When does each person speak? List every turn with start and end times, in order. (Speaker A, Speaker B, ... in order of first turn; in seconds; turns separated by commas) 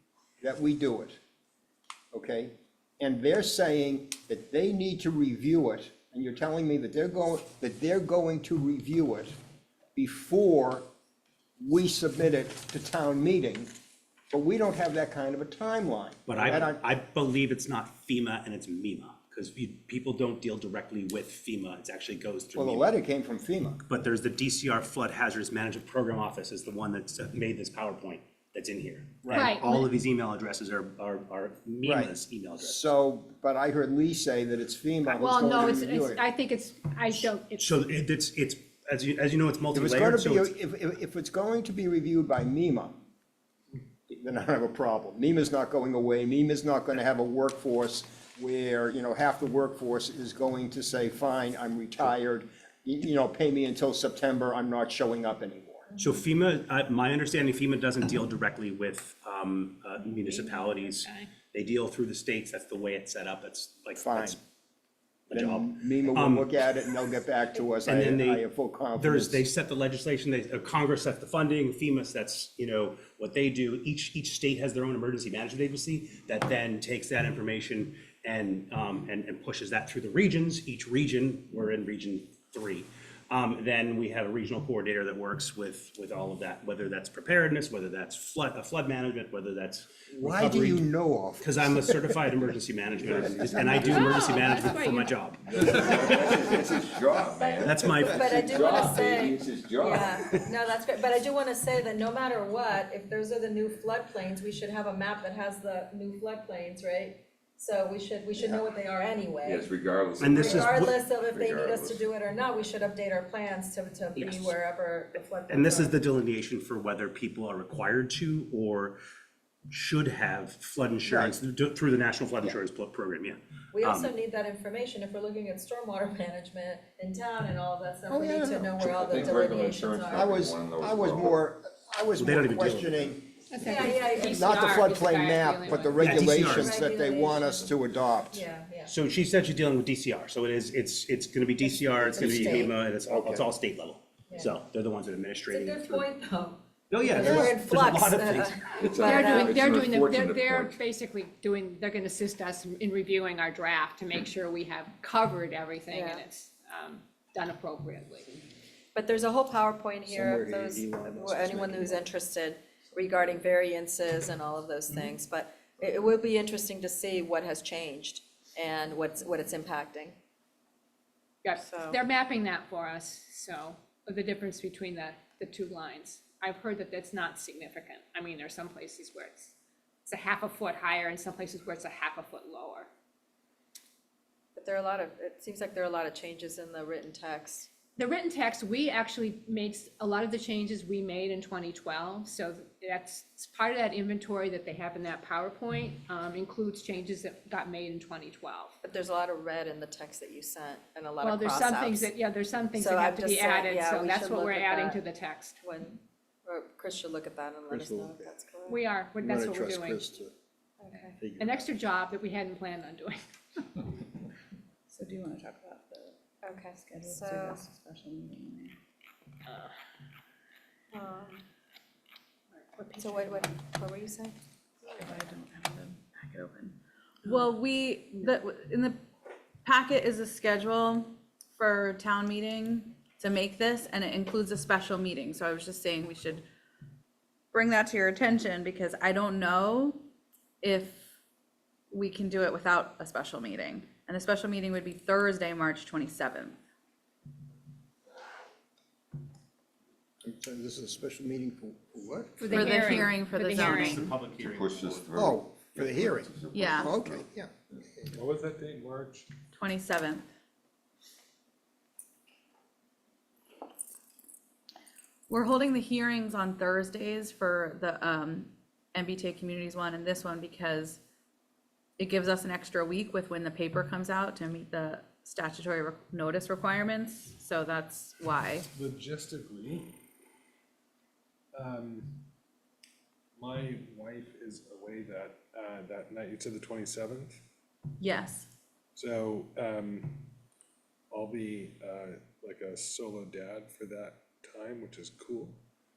Speaker A: 0.4-1.2, Speaker A: 2.1-9.3, Speaker A: 9.9-10.8, Speaker A: 11.6-13.7, Speaker A: 14.3-16.8, Speaker B: 16.3-22.9, Speaker A: 22.5-23.8, Speaker B: 23.8-32.8, Speaker C: 29.3-29.9, Speaker A: 31.8-36.2, Speaker C: 35.1-37.7, Speaker B: 37.6-40.5, Speaker A: 39.7-43.0, Speaker A: 44.1-55.9, Speaker B: 56.0-64.4, Speaker C: 60.0-61.3, Speaker A: 64.0-64.4, Speaker B: 65.3-66.5, Speaker A: 65.3-69.4, Speaker B: 67.8-68.5, Speaker B: 69.0-90.8, Speaker A: 90.1-92.2, Speaker B: 91.4-96.5, Speaker A: 93.1-94.0, Speaker C: 93.8-95.2, Speaker D: 95.4-100.2, Speaker E: 97.3-115.9, Speaker B: 97.6-98.5, Speaker D: 109.4-112.1, Speaker B: 110.2-110.9, Speaker B: 114.2-114.5, Speaker B: 115.5-119.0, Speaker B: 119.7-124.1, Speaker A: 121.1-121.3, Speaker E: 123.7-130.5, Speaker A: 128.1-129.4, Speaker D: 128.8-131.4, Speaker A: 130.1-133.2, Speaker B: 132.2-133.1, Speaker C: 133.5-136.2, Speaker E: 133.6-134.5, Speaker A: 133.8-138.4, Speaker B: 135.9-136.8, Speaker E: 136.1-138.9, Speaker B: 138.8-146.1, Speaker A: 142.1-143.4, Speaker E: 142.2-142.7, Speaker E: 145.5-149.7, Speaker B: 146.9-149.4, Speaker A: 147.2-147.5, Speaker D: 148.8-150.8, Speaker C: 149.0-158.4, Speaker E: 155.9-156.2, Speaker E: 158.9-170.2, Speaker A: 160.1-162.1, Speaker C: 171.4-179.5, Speaker E: 171.5-172.0, Speaker C: 180.1-182.9, Speaker E: 184.5-187.7, Speaker C: 188.0-198.7, Speaker E: 198.8-202.1, Speaker C: 201.2-205.6, Speaker E: 202.8-205.0, Speaker E: 205.6-208.8, Speaker A: 207.7-208.3, Speaker C: 208.7-210.2, Speaker A: 209.2-210.3, Speaker E: 210.8-211.2, Speaker C: 210.9-213.7, Speaker A: 211.2-211.7, Speaker F: 214.9-216.2, Speaker E: 216.4-217.6, Speaker F: 216.7-218.8, Speaker E: 220.9-221.4, Speaker C: 222.5-223.4, Speaker E: 223.0-224.3, Speaker F: 224.8-229.0, Speaker F: 229.6-236.4, Speaker F: 237.5-240.0, Speaker F: 240.6-241.0, Speaker F: 241.9-246.6, Speaker A: 250.2-252.7, Speaker C: 252.4-254.1, Speaker F: 252.5-254.1, Speaker B: 253.5-255.1, Speaker D: 254.3-257.3, Speaker A: 255.1-258.2, Speaker F: 256.5-256.9, Speaker G: 258.1-259.3, Speaker F: 259.5-260.2, Speaker F: 265.3-271.0, Speaker F: 272.0-278.7, Speaker G: 278.7-280.0, Speaker G: 281.5-282.3, Speaker G: 283.4-287.4, Speaker F: 288.0-288.5, Speaker G: 288.9-290.3, Speaker G: 291.1-295.6